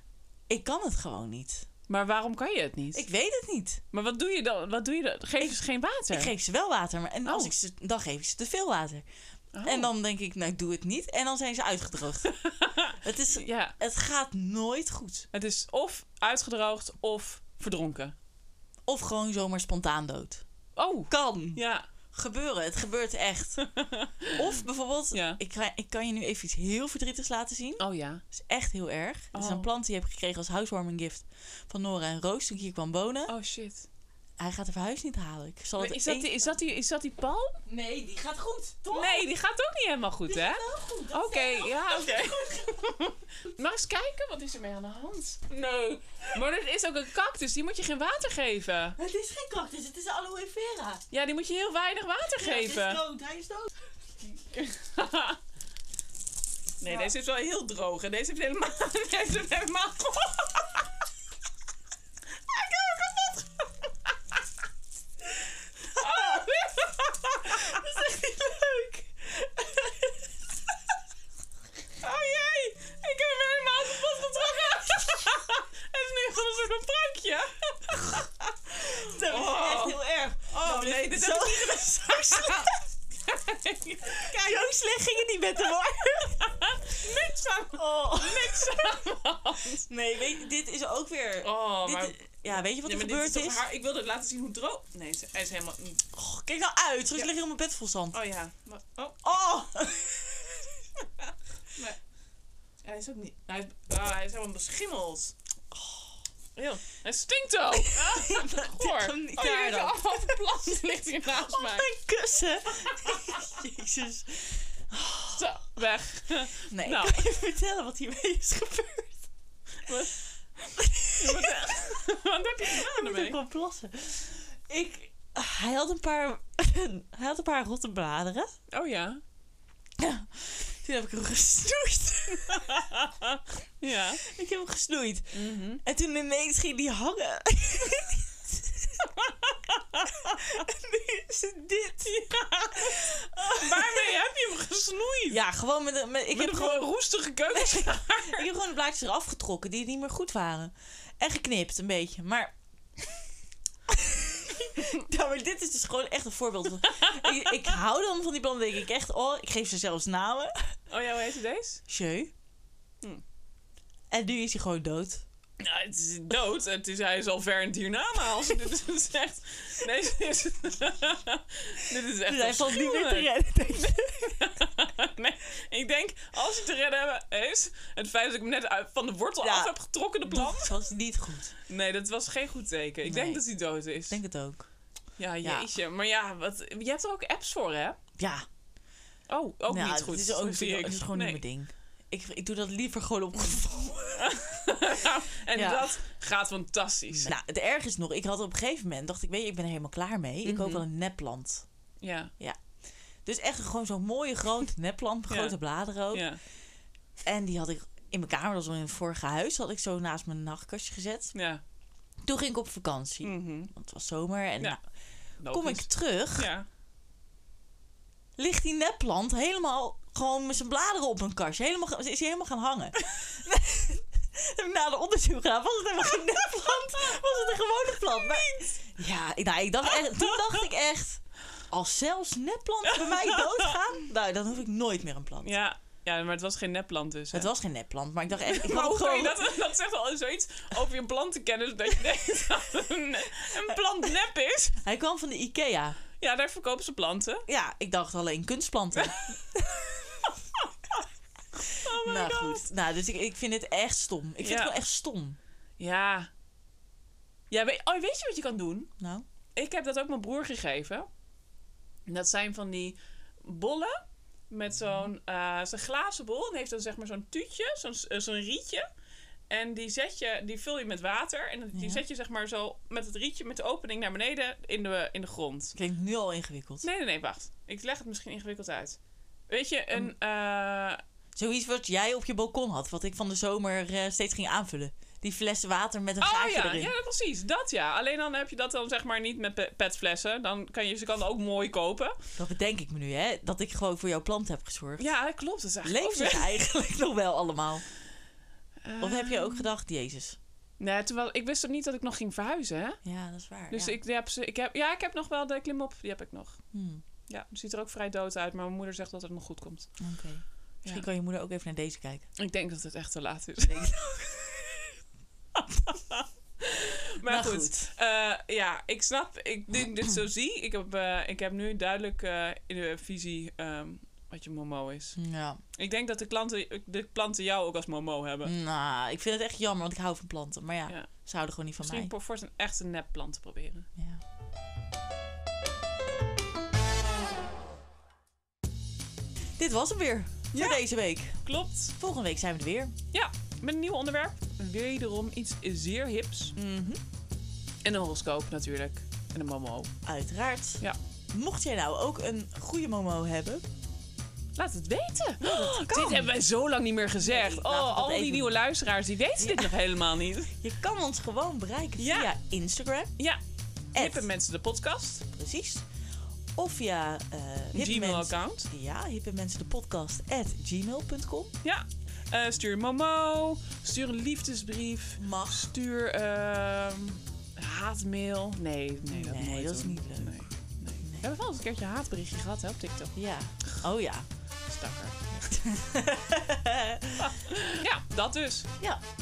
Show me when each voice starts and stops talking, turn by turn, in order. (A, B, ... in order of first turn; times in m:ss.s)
0:00.5-0:01.6 A
0:01.9-0:03.0 B
0:02.9-0:03.8 A
0:03.9-0:06.3 B
0:06.1-0:09.0 A
0:07.2-0:07.5 B
0:09.5-0:09.9 B
0:09.6-0:12.4 A
0:12.3-0:13.8 B
0:13.0-0:15.3 A
0:15.3-0:18.1 B
0:18.9-0:20.4 A
0:20.8-0:21.9 B
0:21.1-0:23.6 A
0:23.6-0:24.5 B
0:24.3-0:33.3 A
0:25.1-0:25.4 B
0:27.8-0:28.2 B
0:29.3-0:29.7 B
0:33.3-0:33.9 B
0:34.4-0:36.6 A
0:35.8-0:37.6 B
0:37.6-0:39.2 A
0:38.9-0:45.6 B
0:40.3-0:42.8 A
0:45.5-0:46.2 A
0:46.3-0:49.0 B
0:49.0-0:51.0 A
0:51.1-0:53.0 B
0:52.4-0:53.8 A
0:54.2-0:55.4 B
0:56.8-1:00.8 B
1:02.5-1:03.7 B
1:05.8-1:07.8 B
1:05.9-1:06.5 A
1:07.4-1:10.3 A
1:12.0-1:18.2 B
1:14.6-1:15.2 A
1:17.9-1:22.8 A
1:18.8-1:24.7 B
1:24.1-1:27.1 A
1:26.4-1:29.9 B
1:27.7-1:29.1 A
1:29.9-1:33.6 A
1:31.4-1:32.2 B
1:32.8-1:36.0 B
1:36.1-1:38.2 A
1:38.1-1:39.2 B
1:39.2-1:40.7 A
1:42.8-1:45.4 B
1:45.7-1:46.1 A
1:46.6-1:51.9 B
1:47.7-1:55.5 A
1:53.1-1:53.3 B
1:55.3-1:57.3 B
1:56.7-1:59.2 A
1:59.8-2:03.4 B
2:00.8-2:02.0 A
2:02.6-2:08.5 A
2:08.7-2:09.2 B
2:10.0-2:12.9 A
2:12.3-2:14.2 B
2:14.2-2:19.2 A
2:15.3-2:15.8 B
2:19.5-2:20.4 B
2:20.0-2:24.2 A
2:22.1-2:25.4 B
2:25.3-2:26.9 A
2:26.3-2:28.5 B
2:27.5-2:32.5 A
2:33.9-2:40.7 A
2:36.8-2:37.8 B
2:40.9-2:41.8 B
2:41.9-2:42.3 A
2:44.1-2:45.2 A
2:45.6-3:00.8 B
2:52.2-2:54.6 A
2:59.4-2:59.7 A
3:00.3-3:01.5 A
3:01.6-3:04.2 B
3:03.0-3:03.4 A
3:04.1-3:04.7 A
3:05.2-3:08.0 B
3:05.4-3:05.7 A
3:08.2-3:08.4 A
3:09.3-3:11.4 B
3:09.7-3:14.4 A
3:14.1-3:17.3 B
3:15.5-3:15.9 A
3:17.2-3:21.6 A
3:20.4-3:20.8 B
3:22.0-3:22.3 B
3:23.2-3:26.3 A
3:25.3-3:25.6 B
3:26.1-3:26.4 B
3:27.2-3:31.3 A
3:31.3-3:31.6 B
3:32.2-3:34.8 A
3:33.2-3:33.7 B
3:35.4-3:36.6 B
3:35.5-3:36.5 A
3:38.4-3:55.5 A
3:47.9-3:48.7 B
3:49.9-3:50.6 B
3:52.8-3:53.8 B
3:55.4-3:57.5 B
3:57.3-3:59.6 A
3:58.4-4:04.8 B
4:04.8-4:06.0 A
4:06.2-4:07.4 B
4:07.5-4:10.3 A
4:09.0-4:09.4 B
4:10.2-4:10.7 B
4:11.7-4:12.6 B
4:11.8-4:15.4 A
4:14.4-4:14.7 B
4:15.8-4:16.3 B
4:17.5-4:18.9 B
4:19.0-4:19.2 A
4:19.6-4:21.1 B
4:22.1-4:28.9 B
4:24.8-4:25.1 A
4:29.5-4:35.8 B
4:31.7-4:32.0 A
4:35.8-4:36.9 A
4:36.8-4:39.0 B
4:39.5-4:41.0 B
4:41.4-4:46.9 A
4:46.2-4:52.1 B
4:52.4-4:55.1 A
4:55.0-4:56.5 B
4:55.8-4:57.8 A
4:58.8-4:59.7 B
4:59.0-5:00.4 A
5:00.8-5:03.0 B
5:03.0-5:04.0 A
5:03.7-5:06.6 B
5:06.7-5:07.0 A
5:07.3-5:09.9 B
5:10.0-5:12.3 A
5:12.4-5:14.3 B
5:13.6-5:14.5 A
5:15.7-5:25.2 B
5:17.3-5:17.9 A
5:25.2-5:25.6 A
5:25.8-5:28.5 B
5:28.4-5:32.1 A
5:31.8-5:33.9 B
5:34.0-5:34.2 A
5:39.6-5:41.4 A
5:40.5-5:40.8 B
5:41.4-5:41.9 B
5:41.9-5:42.9 A
5:43.1-5:46.5 B
5:46.5-5:47.0 A
5:47.8-5:49.9 B
5:50.0-5:53.6 A
5:54.6-6:00.5 B
5:55.4-5:56.3 A
5:57.2-5:58.5 A
5:59.4-6:03.1 A
6:02.0-6:02.3 B
6:03.9-6:04.2 A
6:03.9-6:05.2 B
6:05.3-6:05.9 A
6:06.6-6:11.5 A
6:07.7-6:08.7 B
6:11.6-6:23.1 B
6:15.2-6:15.7 A
6:19.1-6:20.5 A
6:23.1-6:24.3 A
6:24.7-6:25.2 B
6:25.3-6:27.3 A
6:27.2-6:28.7 B